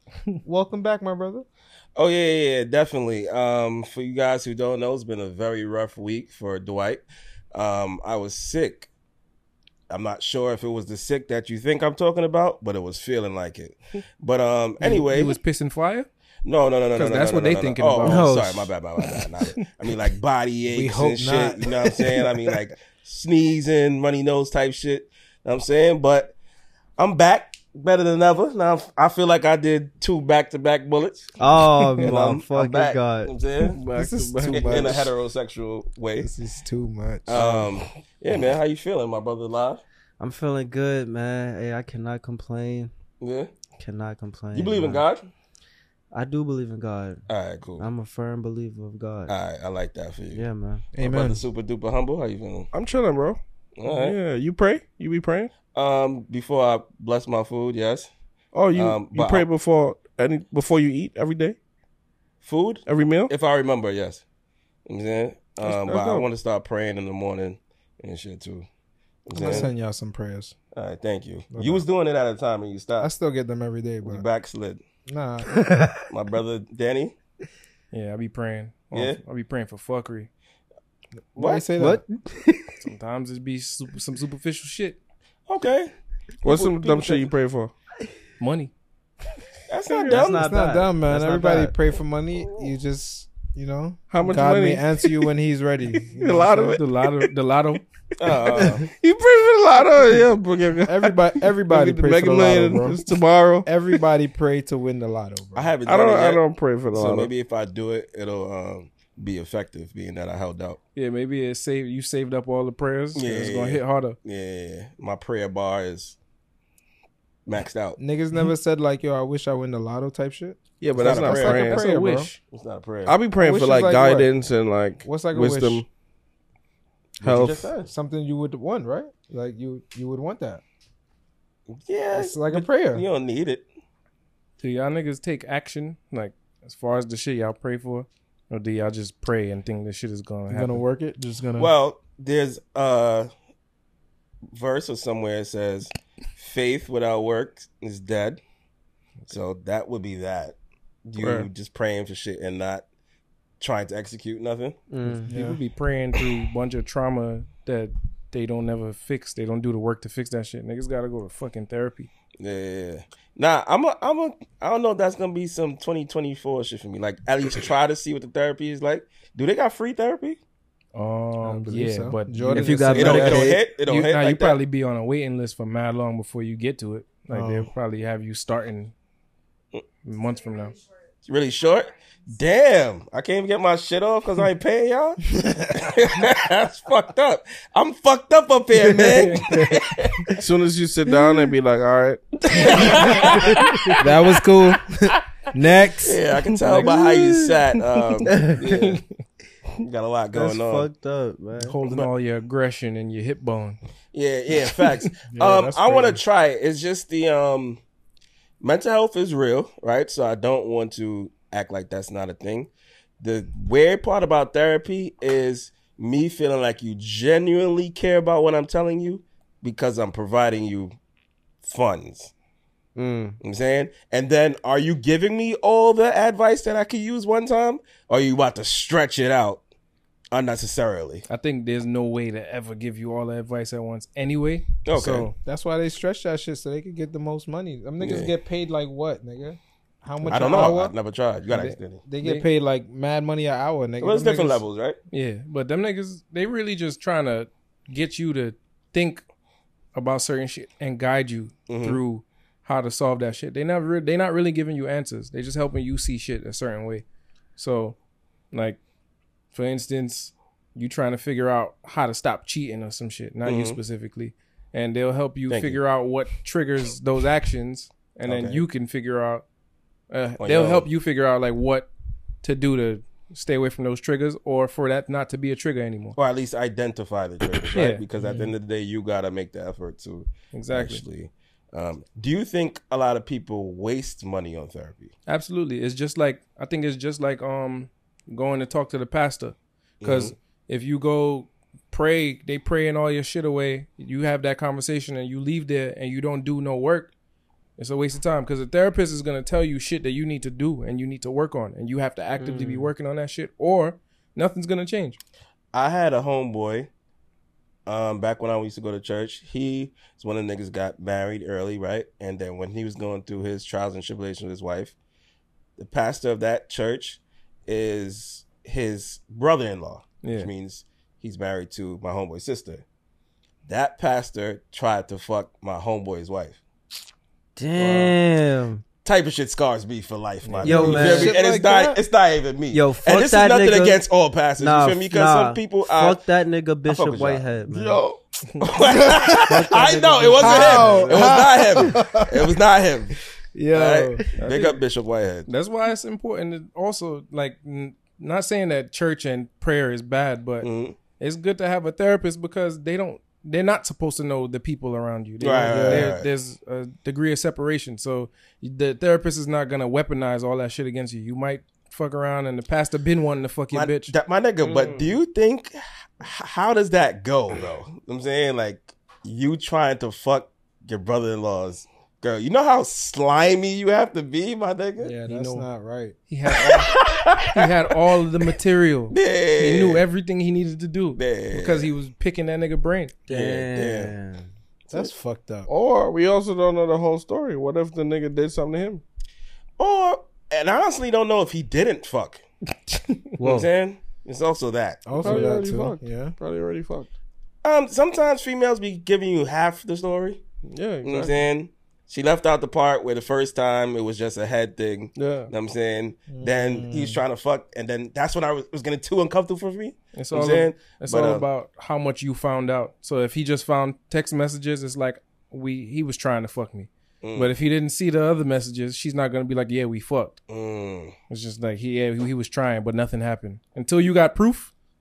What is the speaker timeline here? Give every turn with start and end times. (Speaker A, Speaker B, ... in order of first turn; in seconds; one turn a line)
Speaker A: 0.4-1.5
Speaker B: 2.0-8.9
Speaker B: 9.9-15.4
Speaker C: 14.8-16.1
Speaker B: 16.4-26.4
Speaker C: 16.9-18.3
Speaker D: 18.0-18.7
Speaker A: 20.7-22.5
Speaker B: 27.0-31.4
Speaker D: 31.4-33.3
Speaker B: 32.0-33.8
Speaker E: 33.7-35.1
Speaker A: 33.9-35.1
Speaker B: 34.4-36.3
Speaker A: 36.2-37.7
Speaker B: 37.3-39.8
Speaker D: 40.2-42.9
Speaker B: 43.2-43.5
Speaker D: 43.8-45.0
Speaker B: 44.5-45.2
Speaker D: 46.1-47.2
Speaker B: 47.3-47.9
Speaker D: 47.8-49.3
Speaker B: 49.3-50.5
Speaker D: 50.3-50.9
Speaker A: 50.9-51.5
Speaker B: 51.0-52.7
Speaker E: 52.7-55.5
Speaker B: 53.8-54.2
Speaker B: 55.7-58.1
Speaker E: 58.5-61.6
Speaker B: 58.7-59.5
Speaker B: 62.4-64.2
Speaker E: 62.9-63.3
Speaker B: 64.9-68.7
Speaker E: 65.6-66.3
Speaker B: 69.3-69.7
Speaker A: 69.3-70.5
Speaker B: 70.7-73.1
Speaker A: 71.5-71.8
Speaker A: 73.0-74.3
Speaker B: 74.0-74.8
Speaker A: 75.1-75.5
Speaker D: 75.7-76.0
Speaker B: 76.1-77.2
Speaker C: 77.9-80.3
Speaker B: 78.9-79.2
Speaker A: 81.3-82.0
Speaker B: 81.4-81.7
Speaker D: 81.8-82.7
Speaker C: 82.8-85.0
Speaker B: 85.5-85.9
Speaker B: 86.4-87.3
Speaker E: 86.4-87.7
Speaker C: 88.4-88.7
Speaker B: 89.7-90.5
Speaker D: 89.9-91.8
Speaker A: 90.1-96.8
Speaker B: 92.4-92.7
Speaker E: 94.1-95.1
Speaker E: 96.1-97.3
Speaker C: 96.4-97.9
Speaker B: 98.2-98.9
Speaker E: 98.5-103.7
Speaker A: 100.9-103.0
Speaker A: 103.7-105.7
Speaker B: 105.5-110.8
Speaker E: 105.9-107.3
Speaker C: 111.0-114.2
Speaker B: 113.2-116.2
Speaker B: 117.5-118.0
Speaker A: 118.0-122.3
Speaker E: 120.8-121.8
Speaker B: 121.0-121.7
Speaker C: 121.4-122.4
Speaker B: 122.5-123.2
Speaker E: 123.1-125.9
Speaker A: 123.4-124.3
Speaker A: 125.1-125.8
Speaker B: 127.2-127.9
Speaker E: 127.2-127.7
Speaker A: 127.2-130.6
Speaker B: 131.8-133.7
Speaker A: 132.1-133.1
Speaker C: 134.6-140.8
Speaker A: 140.5-141.7
Speaker B: 141.6-143.3
Speaker B: 144.5-148.4
Speaker B: 149.3-152.8
Speaker E: 151.2-151.5
Speaker B: 153.6-154.8
Speaker D: 154.9-155.3
Speaker A: 155.1-155.6
Speaker C: 155.2-162.1
Speaker B: 162.4-170.4
Speaker C: 170.9-173.2
Speaker A: 171.4-173.6
Speaker D: 172.5-173.6
Speaker B: 172.9-174.6
Speaker C: 173.8-178.9
Speaker A: 177.3-177.7
Speaker C: 180.0-180.8
Speaker B: 181.3-190.4
Speaker A: 189.0-189.7
Speaker D: 189.2-189.6
Speaker E: 190.4-192.6
Speaker B: 192.5-193.9
Speaker D: 193.3-193.9
Speaker A: 194.0-196.2
Speaker B: 196.0-199.0
Speaker D: 196.8-197.5
Speaker D: 198.2-199.0
Speaker C: 198.5-199.0
Speaker B: 199.8-200.9
Speaker D: 200.3-201.8
Speaker C: 201.6-203.8
Speaker B: 204.1-207.8
Speaker A: 205.3-206.2
Speaker B: 208.6-212.7
Speaker B: 213.2-220.9
Speaker B: 221.6-222.3
Speaker D: 223.0-223.4
Speaker B: 223.4-229.6
Speaker B: 230.3-231.2
Speaker C: 231.3-235.3
Speaker B: 234.8-235.3
Speaker A: 234.9-240.9
Speaker B: 238.0-238.3
Speaker B: 240.3-242.0
Speaker A: 241.5-244.6
Speaker C: 241.6-242.5
Speaker B: 244.0-245.0
Speaker C: 245.1-249.2
Speaker C: 249.9-257.1
Speaker B: 251.7-252.0
Speaker C: 257.6-258.0
Speaker C: 258.5-258.8
Speaker C: 259.5-269.5
Speaker B: 263.5-263.8
Speaker B: 265.5-265.8
Speaker B: 268.3-268.6
Speaker C: 270.1-271.9
Speaker B: 270.4-270.9
Speaker C: 272.4-276.2
Speaker B: 276.2-285.1
Speaker C: 277.7-278.0
Speaker A: 278.2-278.5
Speaker C: 280.5-281.0
Speaker C: 285.3-297.1
Speaker B: 290.0-290.3
Speaker C: 297.8-305.2
Speaker D: 302.4-302.9
Speaker B: 305.7-306.9
Speaker B: 307.9-314.9
Speaker B: 315.8-322.8
Speaker C: 320.2-320.5
Speaker B: 323.7-326.6
Speaker D: 327.6-328.8
Speaker B: 327.8-328.2
Speaker B: 329.1-336.2
Speaker C: 330.4-331.2
Speaker D: 330.6-331.4
Speaker A: 330.8-332.0
Speaker D: 332.7-334.0
Speaker D: 334.6-338.0
Speaker B: 336.9-337.5
Speaker E: 337.7-338.2
Speaker B: 338.6-343.2
Speaker D: 339.2-341.4
Speaker A: 340.4-342.5
Speaker A: 343.5-344.3
Speaker B: 343.7-345.5
Speaker C: 344.4-344.7
Speaker E: 344.4-344.7
Speaker C: 345.5-364.1
Speaker B: 350.6-351.0
Speaker B: 355.4-356.3
Speaker A: 355.7-356.2
Speaker B: 363.7-375.1
Speaker E: 364.6-365.1
Speaker A: 375.0-376.2
Speaker C: 375.3-375.7
Speaker C: 376.3-383.1
Speaker B: 376.6-377.9
Speaker B: 379.1-380.0
Speaker B: 381.2-381.9
Speaker D: 383.3-384.5
Speaker B: 383.3-384.1
Speaker A: 384.9-385.7
Speaker E: 385.7-389.0
Speaker B: 389.8-392.4
Speaker C: 392.9-393.2
Speaker D: 393.4-393.7
Speaker B: 393.4-395.5
Speaker A: 395.1-396.4
Speaker E: 395.2-397.1
Speaker B: 397.6-400.4
Speaker E: 400.6-401.4
Speaker B: 401.0-411.5
Speaker E: 405.1-405.5
Speaker A: 406.3-407.2
Speaker C: 410.1-420.4
Speaker B: 417.2-417.5
Speaker B: 420.5-421.2
Speaker C: 421.3-424.7